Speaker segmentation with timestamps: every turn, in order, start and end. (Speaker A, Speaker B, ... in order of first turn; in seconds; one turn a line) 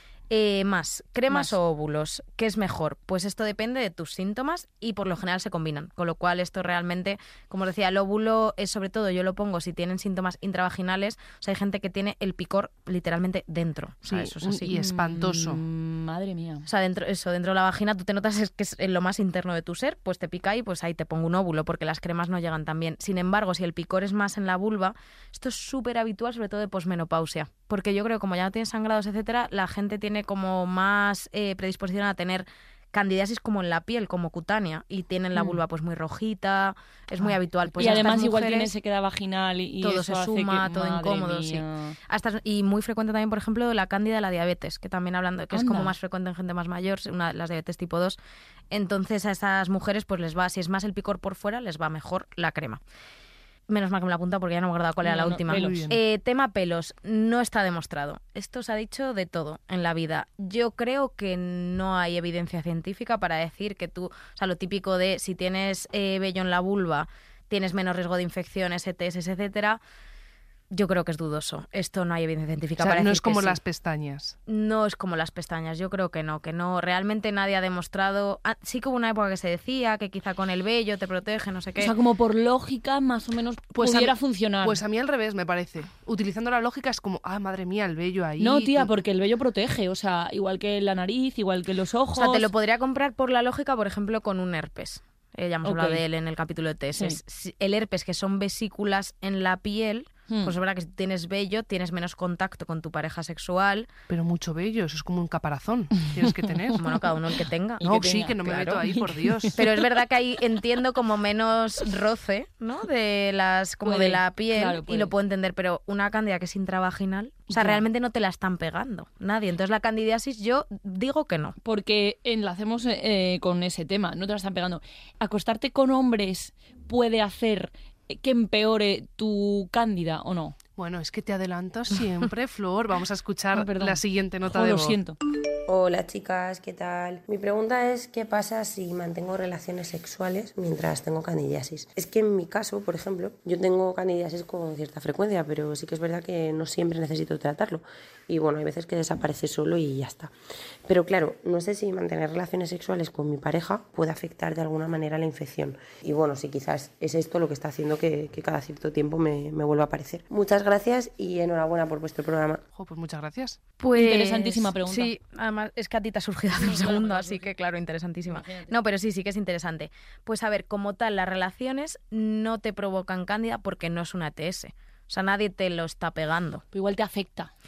Speaker A: 0.3-14.7
Speaker B: 14.1-15.6
Speaker C: 14.6-16.7
Speaker A: 16.6-38.7
Speaker C: 37.7-42.0
Speaker A: 39.8-48.2
Speaker C: 45.5-45.9
Speaker A: 48.7-52.8
Speaker A: 53.7-69.8
Speaker C: 55.0-55.9
Speaker B: 55.5-56.0
Speaker A: 70.7-73.6
Speaker B: 72.8-74.4
Speaker A: 74.5-81.9
Speaker C: 81.8-84.8
Speaker B: 83.7-88.9
Speaker C: 88.4-92.5
Speaker A: 92.2-103.9
Speaker C: 95.6-96.0
Speaker C: 100.3-100.5
Speaker B: 104.1-106.8
Speaker A: 106.8-108.8
Speaker C: 107.8-109.6
Speaker B: 107.8-109.6
Speaker A: 109.5-121.5
Speaker C: 113.8-115.1
Speaker C: 117.5-117.8
Speaker C: 121.6-130.6
Speaker B: 130.8-135.0
Speaker C: 133.5-135.2
Speaker D: 135.7-150.3
Speaker D: 150.8-162.6
Speaker B: 162.7-163.6
Speaker A: 163.8-176.6
Speaker C: 163.9-165.1
Speaker C: 166.6-167.5
Speaker C: 168.3-168.7
Speaker C: 176.7-177.5